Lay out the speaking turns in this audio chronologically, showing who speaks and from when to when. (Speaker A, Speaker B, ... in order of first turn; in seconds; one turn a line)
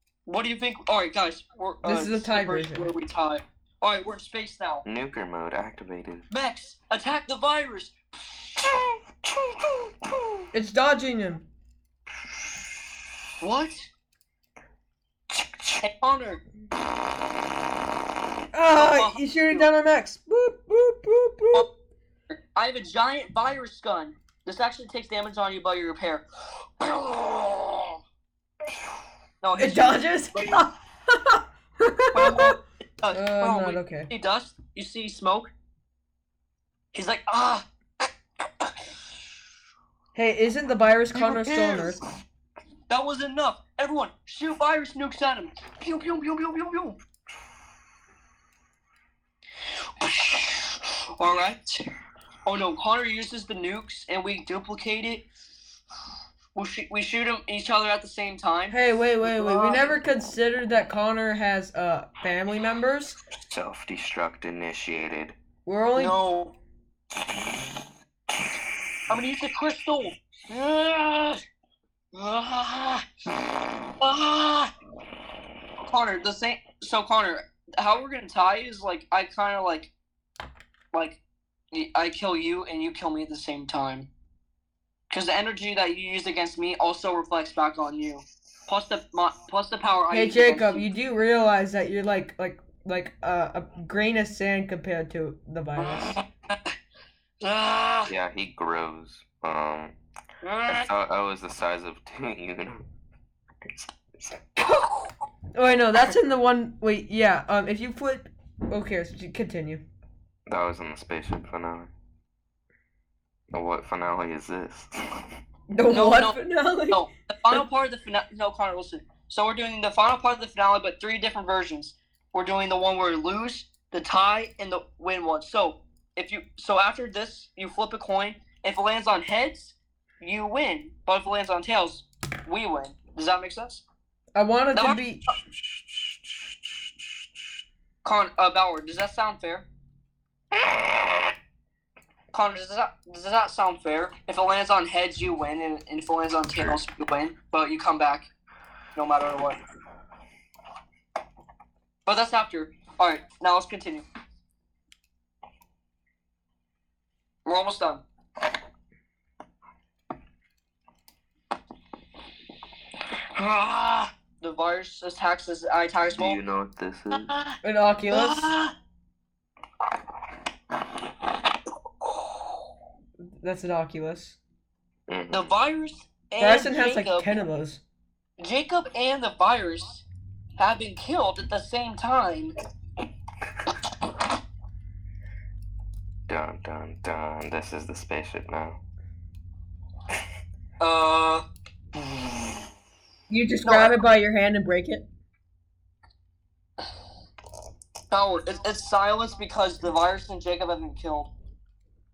Speaker A: 0.2-4.8
Speaker B: 1.8-2.9
Speaker C: 4.8-6.3
Speaker A: 6.3-7.9
Speaker C: 8.7-10.4
Speaker B: 10.5-11.4
Speaker A: 13.4-13.8
Speaker C: 15.3-15.8
Speaker A: 15.8-16.4
Speaker B: 18.5-21.6
Speaker A: 18.7-19.7
Speaker A: 22.3-26.2
Speaker A: 26.8-28.0
Speaker A: 29.4-30.6
Speaker B: 29.6-32.5
Speaker A: 32.1-35.5
Speaker B: 33.1-34.1
Speaker A: 36.9-37.6
Speaker B: 40.1-42.0
Speaker A: 41.1-42.0
Speaker A: 42.9-47.0
Speaker A: 50.0-51.8
Speaker A: 52.5-55.2
Speaker A: 56.5-60.0
Speaker B: 58.7-63.2
Speaker C: 63.4-65.4
Speaker B: 65.7-66.2
Speaker A: 66.0-66.5
Speaker A: 69.1-71.4
Speaker A: 72.1-73.0
Speaker A: 73.9-74.7
Speaker A: 75.8-79.9
Speaker A: 80.9-81.2
Speaker A: 81.7-84.1
Speaker A: 85.1-90.8
Speaker B: 90.1-96.2
Speaker A: 95.8-96.7
Speaker A: 97.4-98.1
Speaker C: 98.1-99.9
Speaker A: 100.4-100.9
Speaker C: 100.8-102.8
Speaker C: 103.6-104.4
Speaker A: 104.6-105.1
Speaker B: 105.5-109.8
Speaker C: 110.5-111.9
Speaker C: 113.5-115.2
Speaker B: 115.7-117.6
Speaker A: 115.9-116.4
Speaker A: 116.9-133.8
Speaker B: 134.3-135.2
Speaker A: 134.7-135.0
Speaker A: 138.0-139.7
Speaker A: 142.3-148.3
Speaker A: 148.9-149.6
Speaker A: 152.1-154.1
Speaker A: 157.4-158.0
Speaker A: 163.3-166.4
Speaker C: 166.1-167.3
Speaker A: 167.2-167.6
Speaker B: 167.6-168.5
Speaker A: 168.1-168.7
Speaker B: 173.2-174.4
Speaker C: 175.1-175.5
Speaker A: 175.3-177.4
Speaker B: 176.4-177.8
Speaker A: 178.4-180.0
Speaker A: 180.6-182.5
Speaker C: 186.3-188.8
Speaker A: 190.8-191.4
Speaker A: 192.0-192.5
Speaker B: 193.3-195.0
Speaker A: 193.6-193.9
Speaker A: 198.1-201.3